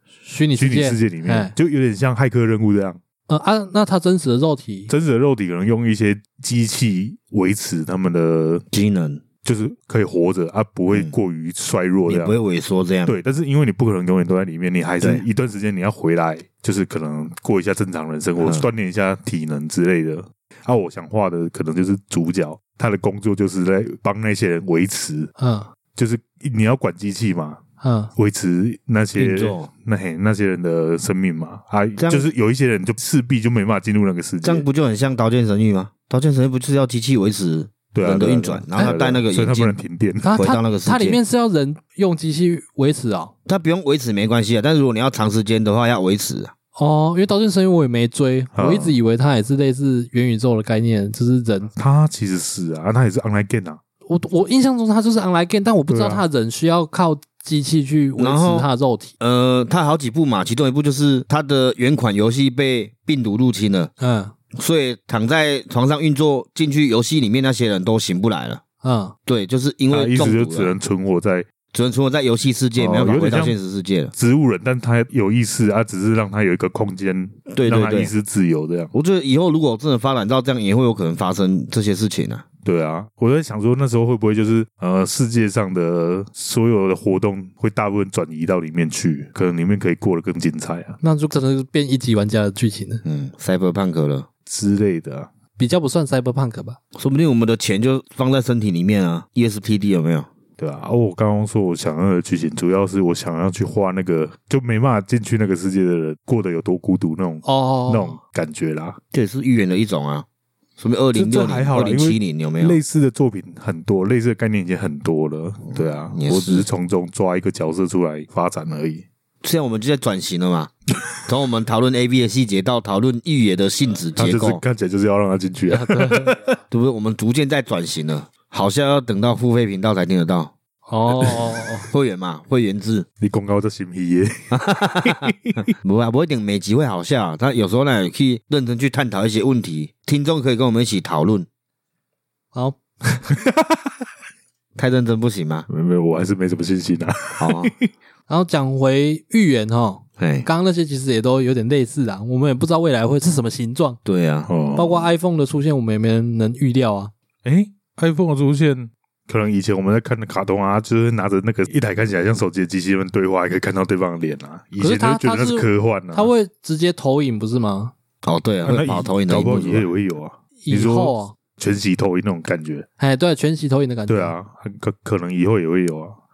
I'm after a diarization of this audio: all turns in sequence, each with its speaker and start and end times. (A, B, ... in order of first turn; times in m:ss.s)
0:00.2-0:01.5 A
0:00.6-0:03.0 B
0:03.3-0:04.9 A
0:04.9-0:08.6 B
0:08.7-0:09.2 C
0:09.4-0:12.4 B
0:12.1-0:13.1 C
0:13.0-0:25.3 B
0:18.4-0:18.6 C
0:25.4-0:25.7 A
0:25.9-0:27.6 B
0:27.8-0:28.1 A
0:28.2-0:34.6 B
0:29.2-0:29.7 C
0:32.0-0:32.2 C
0:34.4-0:39.8 C
0:37.9-0:40.4 B
0:40.2-0:43.3 A
0:40.4-0:41.2 C
0:43.4-0:46.5 C
0:46.8-0:51.7 A
0:48.5-0:48.9 B
0:51.8-0:53.8 B
0:54.1-0:59.1 A
0:55.9-0:56.2 B
0:58.2-0:58.7 C
0:59.2-1:03.9 C
1:04.0-1:04.3 A
1:04.5-1:08.6 C
1:08.8-1:09.1 A
1:09.2-1:10.7 C
1:09.9-1:11.5 B
1:11.7-1:14.1 C
1:12.8-1:13.6 B
1:14.1-1:18.9 B
1:17.5-1:18.1 C
1:18.9-1:22.4 C
1:22.6-1:31.0 B
1:31.0-1:33.0 A
1:33.0-1:34.3 C
1:34.4-1:35.3 B
1:35.6-1:36.8 A
1:36.9-1:40.3 C
1:40.6-1:49.0 B
1:47.4-1:48.2 A
1:49.1-1:50.2 C
1:50.8-1:52.8 C
1:51.1-1:59.0 B
1:55.7-1:56.7 C
1:59.4-2:00.7 C
2:01.2-2:04.6 C
2:04.2-2:06.6 B
2:05.7-2:06.3 A
2:06.7-2:10.5 C
2:10.9-2:11.8 A
2:11.9-2:13.0 C
2:13.2-2:15.6 B
2:14.5-2:21.5 C
2:22.5-2:23.3 A
2:23.4-2:23.7 B
2:24.8-2:25.7 C
2:25.7-2:27.9 B
2:27.4-2:27.7 C
2:28.3-2:34.0 A
2:30.2-2:30.5 C
2:34.0-2:34.5 C
2:34.5-2:35.0 B
2:34.7-2:37.1 A
2:37.4-2:46.3 B
2:44.8-2:47.9 A
2:48.2-2:49.9 C
2:48.6-2:52.8 B
2:50.6-2:51.3 A
2:53.0-2:54.3 A
2:54.1-2:56.2 B